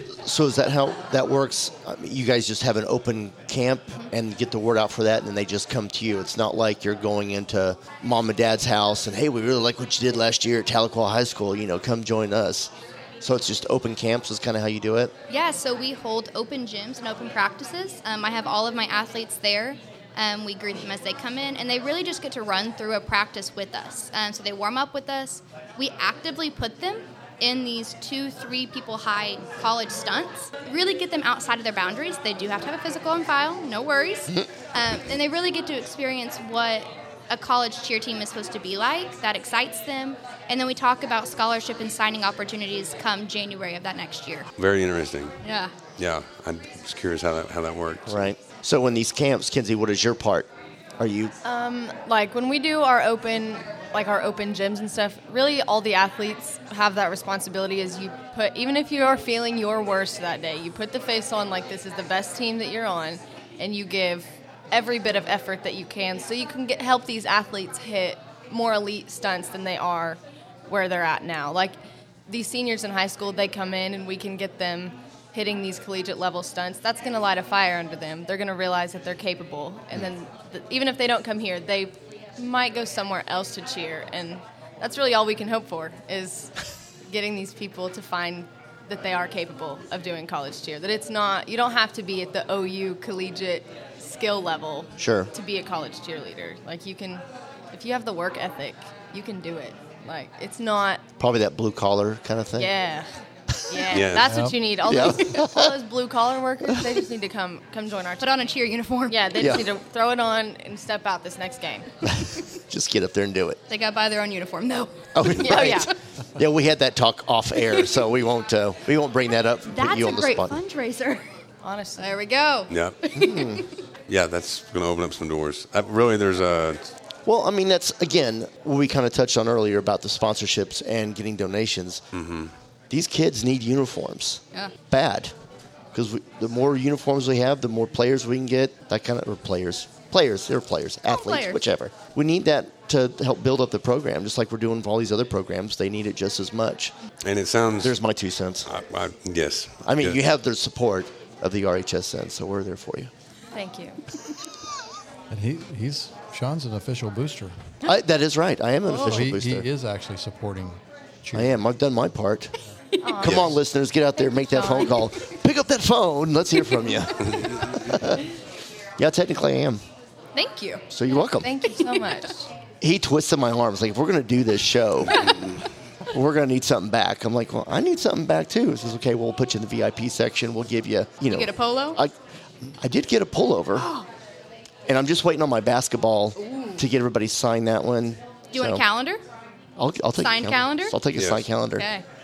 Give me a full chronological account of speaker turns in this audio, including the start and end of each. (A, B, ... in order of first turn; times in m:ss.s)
0:00.2-0:15.1 A
0:15.3-0:44.5 B
0:44.6-0:45.4 C
0:45.4-0:45.7 B
0:46.0-0:48.3 C
0:48.1-0:51.3 A
0:51.4-1:41.0 D
1:35.0-1:35.3 A
1:41.2-1:42.7 A
1:42.6-1:43.1 D
1:43.7-1:48.3 D
1:43.9-1:44.3 C
1:44.2-1:44.6 E
1:44.8-1:45.8 A
1:48.2-1:49.6 B
1:49.1-1:51.9 D
1:49.4-1:49.7 A
1:52.0-1:53.6 A
1:53.7-1:55.8 B
1:55.1-2:00.6 A
1:55.4-1:55.9 D
1:59.7-2:01.3 B
2:01.6-2:02.2 D
2:02.0-2:03.7 B
2:02.7-2:03.0 C
2:03.1-2:03.6 A
2:04.1-2:06.9 C
2:07.2-2:12.0 A
2:12.1-2:12.5 C
2:12.9-2:15.3 A
2:15.9-2:26.9 A
2:21.0-2:21.6 B
2:27.2-2:28.0 C
2:27.8-2:28.7 A
2:28.6-2:30.2 C
2:29.8-2:33.1 A
2:33.5-2:34.0 D
2:35.3-2:37.7 E
2:37.8-2:39.6 A
2:38.9-2:39.2 B
2:39.0-2:41.6 E
2:41.3-2:42.5 A
2:43.0-2:43.5 D
2:43.2-2:48.2 A
2:43.2-2:43.5 C
2:44.5-2:45.0 D
2:49.0-2:49.8 A
2:50.3-2:50.8 B
2:50.9-2:51.6 A
2:51.4-2:52.5 D
2:51.7-2:52.2 B
2:52.8-2:55.4 A
2:55.1-2:55.4 B
2:56.1-3:03.9 A
3:01.3-3:02.0 B
3:03.7-3:04.1 B
3:04.9-3:08.8 A
3:06.4-3:06.8 B
3:08.5-3:09.2 B
3:09.8-3:11.9 A
3:10.2-3:11.0 B
3:11.1-3:11.4 C
3:11.8-3:12.0 B